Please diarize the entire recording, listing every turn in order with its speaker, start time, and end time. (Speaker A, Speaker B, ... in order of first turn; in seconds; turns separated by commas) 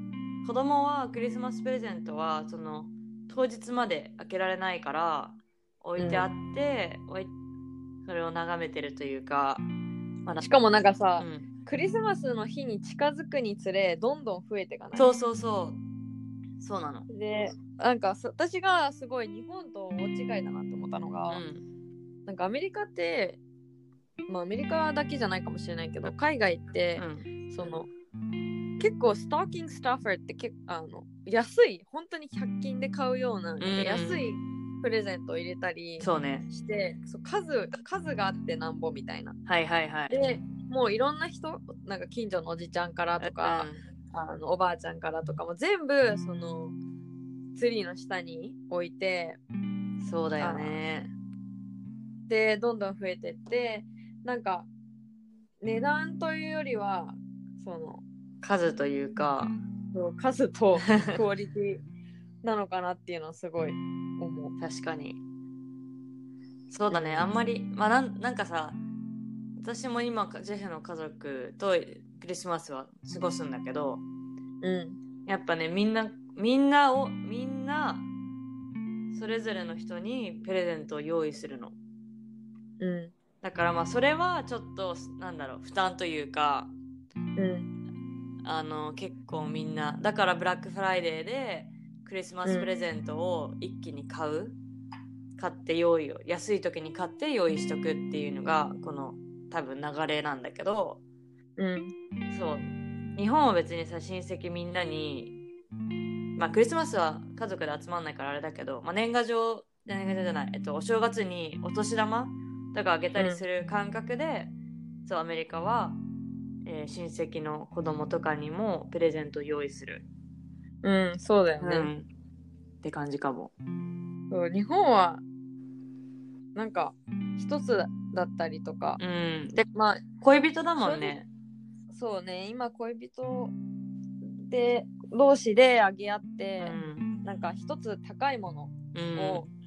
Speaker A: 0.4-7.3, Speaker B: 6.0-6.3, Speaker A: 8.1-9.7, Speaker B: 10.4-15.1, Speaker A: 11.2-11.5, Speaker A: 14.9-15.8, Speaker A: 16.6-17.1, Speaker B: 17.1-21.4, Speaker A: 21.3-21.6, Speaker B: 22.2-23.4, Speaker B: 24.3-27.9, Speaker A: 27.0-27.2, Speaker B: 28.8-39.4, Speaker A: 33.6-34.2, Speaker A: 36.0-36.5, Speaker A: 39.5-40.2, Speaker B: 40.1-46.8, Speaker A: 43.2-43.8, Speaker B: 47.5-49.4, Speaker A: 50.0-51.1, Speaker B: 50.4-50.8, Speaker B: 52.3-54.7, Speaker B: 55.6-58.0, Speaker A: 58.4-59.5, Speaker B: 59.9-61.8, Speaker A: 60.9-61.2, Speaker B: 62.4-64.6, Speaker A: 64.6-65.2, Speaker A: 66.7-68.8, Speaker B: 66.9-67.3, Speaker A: 69.6-74.0, Speaker B: 74.6-75.0, Speaker A: 75.2-78.1, Speaker A: 79.1-81.8, Speaker B: 82.8-83.1, Speaker A: 83.4-86.7, Speaker B: 87.4-87.7, Speaker A: 88.4-94.6, Speaker A: 95.4-101.0, Speaker B: 101.6-101.9, Speaker A: 102.3-105.4, Speaker A: 106.4-114.5, Speaker B: 113.2-113.4, Speaker A: 115.1-116.0, Speaker A: 116.6-120.0, Speaker B: 120.8-121.9, Speaker A: 121.6-122.1, Speaker A: 122.8-123.5, Speaker B: 124.3-125.2, Speaker B: 126.5-129.0, Speaker A: 129.0-129.7, Speaker B: 129.7-130.1, Speaker A: 130.2-131.3, Speaker B: 130.8-131.2, Speaker B: 131.9-133.5, Speaker B: 134.4-139.5, Speaker A: 136.6-137.1, Speaker A: 138.9-139.5